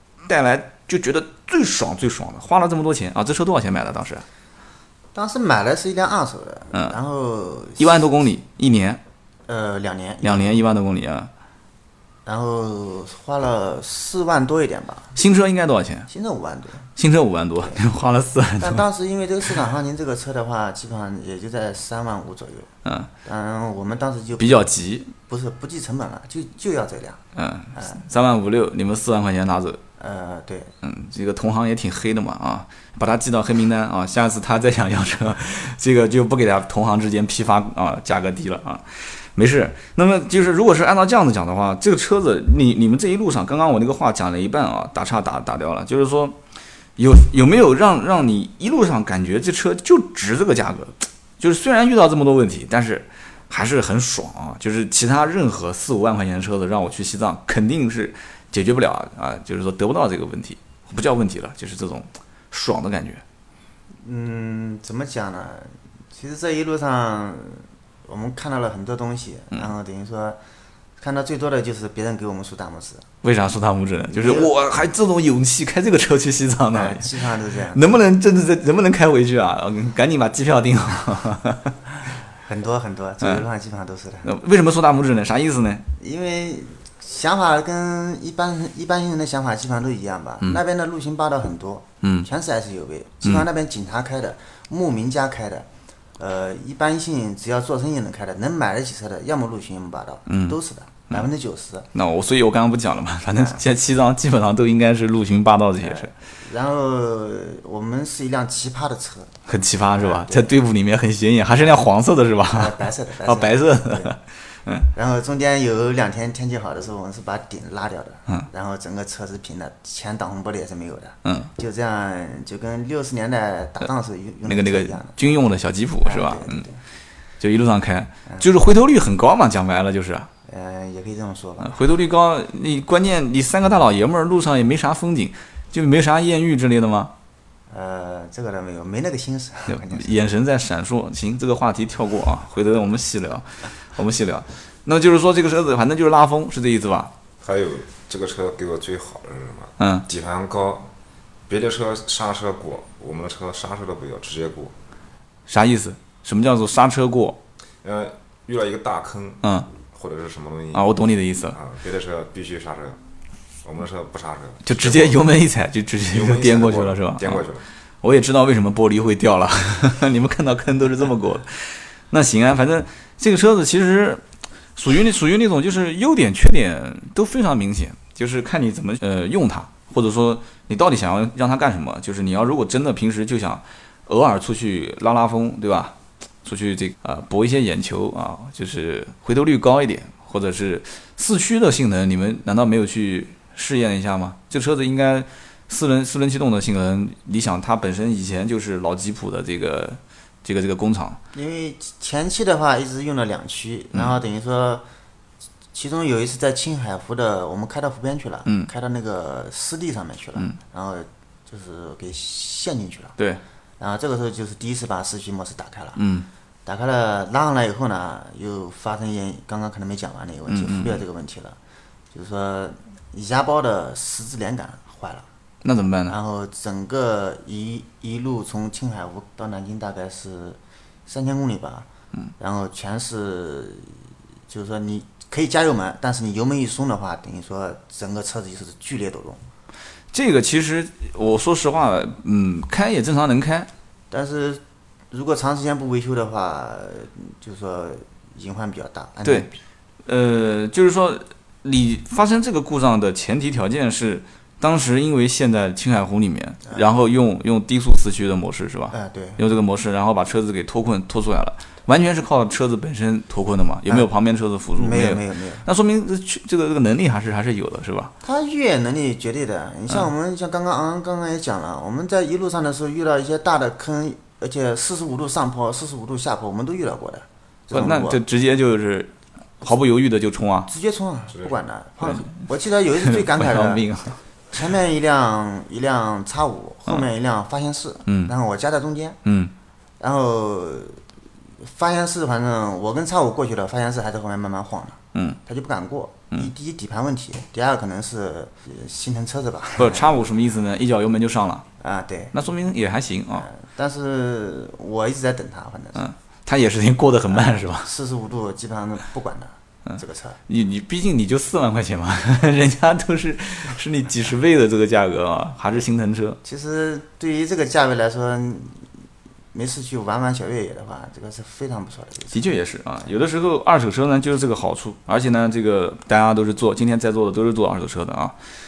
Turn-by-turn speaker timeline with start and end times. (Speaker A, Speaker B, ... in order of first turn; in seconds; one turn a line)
Speaker A: 0.2-4.2
Speaker B: 5.1-8.1
Speaker A: 7.8-9.0
Speaker B: 9.5-10.6
Speaker A: 10.2-11.3
Speaker B: 12.3-15.2
Speaker A: 15.2-16.1
Speaker B: 16.1-16.9
Speaker A: 17.0-18.8
Speaker B: 18.6-22.7
Speaker A: 22.9-23.1
Speaker B: 23.2-27.2
Speaker A: 24.4-25.1
Speaker A: 27.4-29.8
Speaker B: 27.8-28.0
Speaker B: 30.0-30.7
Speaker A: 30.8-46.4
Speaker A: 47.0-63.2
Speaker B: 64.0-70.4
Speaker B: 71.0-73.1
Speaker A: 73.2-81.8
Speaker B: 74.1-74.5
Speaker B: 76.7-78.0
Speaker B: 82.4-84.3
Speaker A: 84.2-85.9
Speaker B: 86.0-101.9
Speaker A: 92.0-92.3
Speaker A: 100.3-100.6
Speaker A: 101.9-106.1
Speaker B: 105.8-109.3
Speaker A: 109.5-114.9
Speaker B: 109.9-110.6
Speaker B: 112.5-114.2
Speaker B: 114.9-125.2
Speaker A: 121.2-121.5
Speaker A: 124.5-126.7
Speaker B: 126.0-126.8
Speaker A: 127.4-130.3
Speaker B: 130.5-131.8
Speaker A: 131.6-137.1
Speaker B: 137.7-140.2
Speaker A: 139.7-147.1
Speaker C: 147.4-150.9
Speaker A: 149.8-150.1
Speaker C: 151.5-154.7
Speaker A: 155.5-157.4
Speaker C: 157.8-160.8
Speaker A: 159.4-159.7
Speaker A: 160.7-161.6
Speaker C: 161.5-163.0
Speaker C: 163.6-165.2
Speaker A: 164.7-167.5
Speaker C: 166.1-167.7
Speaker A: 168.0-174.2
Speaker A: 174.8-201.2
Speaker B: 201.3-204.8
Speaker B: 205.7-213.2
Speaker B: 213.8-216.0
Speaker A: 216.0-216.3
Speaker B: 216.7-221.6
Speaker A: 220.5-221.0
Speaker B: 222.1-225.3
Speaker A: 225.6-226.2
Speaker B: 226.1-231.9
Speaker B: 232.4-239.4
Speaker A: 240.1-243.7
Speaker B: 244.1-249.6
Speaker A: 250.1-268.1
Speaker B: 258.9-259.4
Speaker B: 264.7-265.6
Speaker B: 268.2-278.2
Speaker A: 277.7-280.7
Speaker B: 280.7-283.9
Speaker A: 283.0-284.2
Speaker B: 284.5-289.2
Speaker A: 288.1-288.3
Speaker A: 289.2-289.5
Speaker B: 290.0-291.0
Speaker B: 291.6-300.1
Speaker A: 295.1-295.4
Speaker A: 299.8-301.6
Speaker B: 301.8-302.4
Speaker A: 302.3-303.5
Speaker B: 303.3-306.0
Speaker A: 306.0-307.9
Speaker B: 307.3-310.4
Speaker A: 310.5-316.4
Speaker B: 316.4-318.9
Speaker B: 319.5-322.4
Speaker A: 322.3-328.4